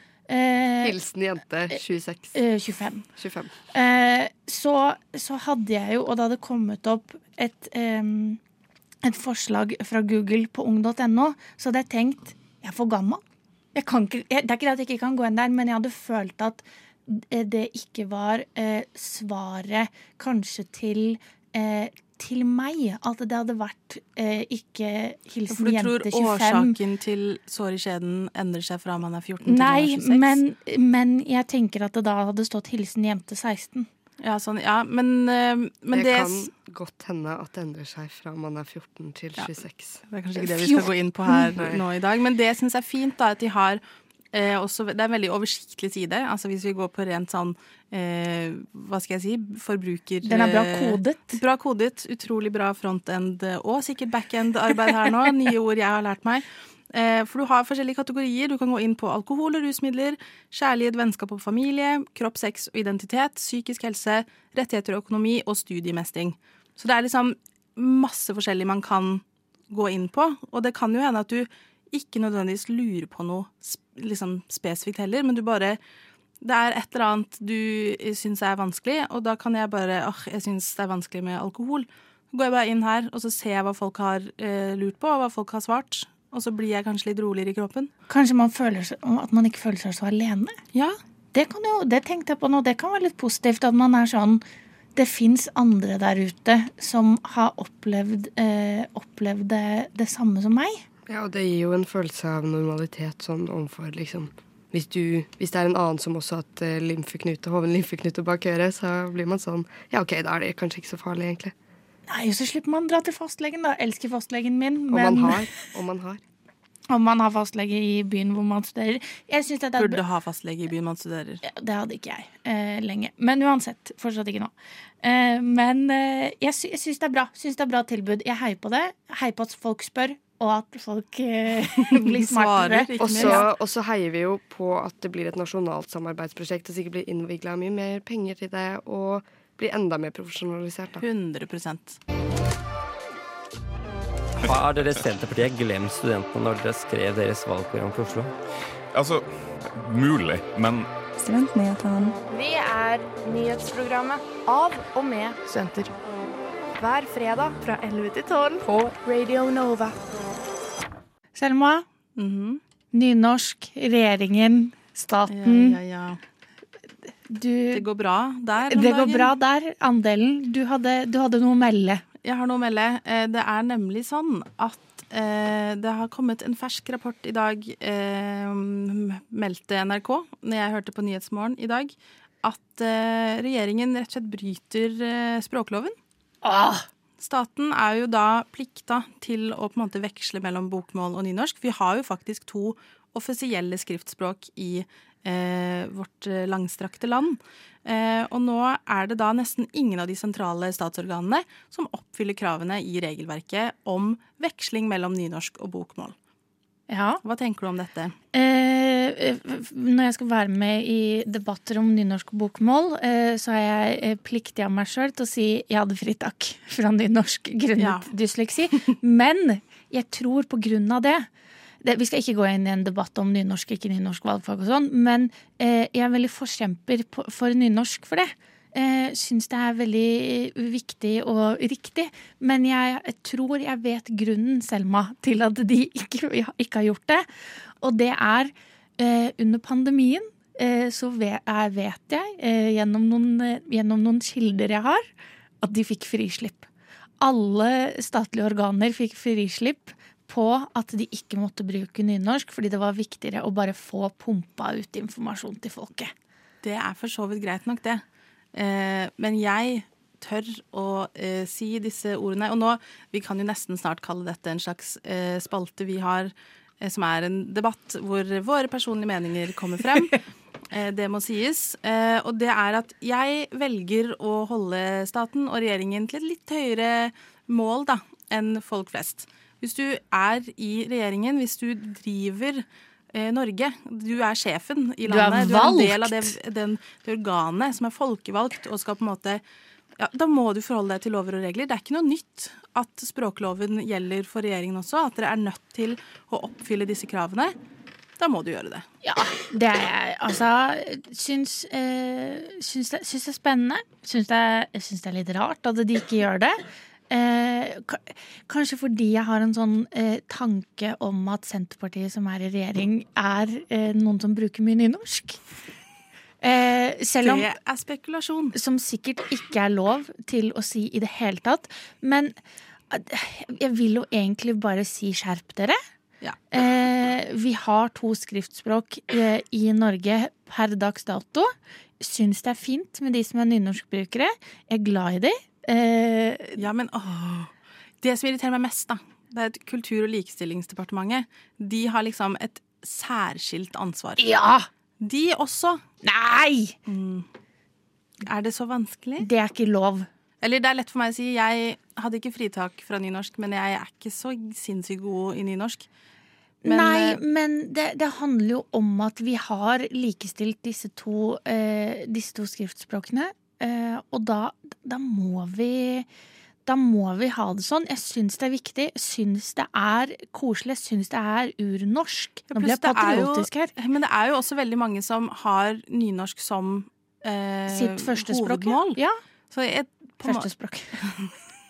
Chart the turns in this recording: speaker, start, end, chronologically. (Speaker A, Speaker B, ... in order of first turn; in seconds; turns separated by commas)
Speaker A: 0.3-1.0, Speaker B: 0.8-2.4, Speaker A: 2.3-3.0, Speaker B: 3.1-3.5, Speaker A: 3.7-8.4, Speaker A: 9.0-13.2, Speaker A: 13.7-26.7, Speaker C: 25.5-30.4, Speaker A: 29.4-33.9, Speaker C: 34.2-36.5, Speaker B: 35.9-40.0, Speaker C: 39.4-43.8, Speaker A: 40.5-41.3, Speaker B: 41.5-41.8, Speaker C: 44.3-75.8, Speaker A: 50.2-51.4, Speaker C: 76.4-87.9, Speaker A: 88.1-90.6, Speaker A: 91.3-94.4, Speaker A: 95.0-100.8, Speaker B: 101.1-111.5, Speaker A: 112.1-115.4, Speaker B: 114.9-116.2, Speaker A: 116.9-120.0, Speaker C: 119.8-121.4, Speaker A: 121.4-133.4, Speaker C: 131.9-133.4, Speaker B: 133.0-141.0, Speaker C: 141.0-142.0, Speaker D: 144.4-148.3, Speaker E: 148.9-150.9, Speaker F: 152.3-155.9, Speaker F: 156.8-160.0, Speaker A: 161.3-161.8, Speaker C: 162.2-162.6, Speaker A: 162.9-165.8, Speaker C: 165.3-166.2, Speaker A: 167.3-167.8, Speaker C: 167.7-169.3, Speaker A: 168.7-172.0, Speaker C: 172.2-185.9, Speaker A: 186.4-186.8, Speaker C: 187.2-206.1, Speaker A: 206.9-207.2, Speaker C: 207.2-208.1, Speaker A: 208.3-221.3, Speaker C: 217.8-218.1, Speaker A: 221.8-237.2, Speaker A: 237.8-245.0, Speaker A: 245.6-246.7, Speaker A: 247.2-256.1, Speaker C: 256.6-258.0, Speaker C: 258.5-270.2, Speaker C: 270.7-289.4, Speaker A: 285.1-286.3, Speaker C: 290.0-297.5, Speaker C: 298.2-298.9, Speaker A: 299.0-306.6, Speaker A: 307.1-315.4, Speaker A: 316.4-317.5, Speaker C: 317.2-318.5, Speaker A: 318.5-322.3, Speaker A: 322.9-325.8, Speaker A: 326.5-336.6, Speaker C: 336.6-344.2, Speaker A: 344.2-344.7, Speaker C: 345.0-345.8, Speaker A: 346.0-346.8, Speaker C: 346.9-347.3, Speaker C: 348.2-349.3, Speaker A: 349.2-350.1, Speaker C: 350.4-355.9, Speaker A: 356.6-366.1, Speaker C: 356.6-357.2, Speaker A: 366.6-373.7, Speaker C: 372.5-379.0, Speaker A: 377.7-379.2, Speaker C: 379.5-380.5, Speaker A: 380.2-381.0, Speaker C: 381.0-381.3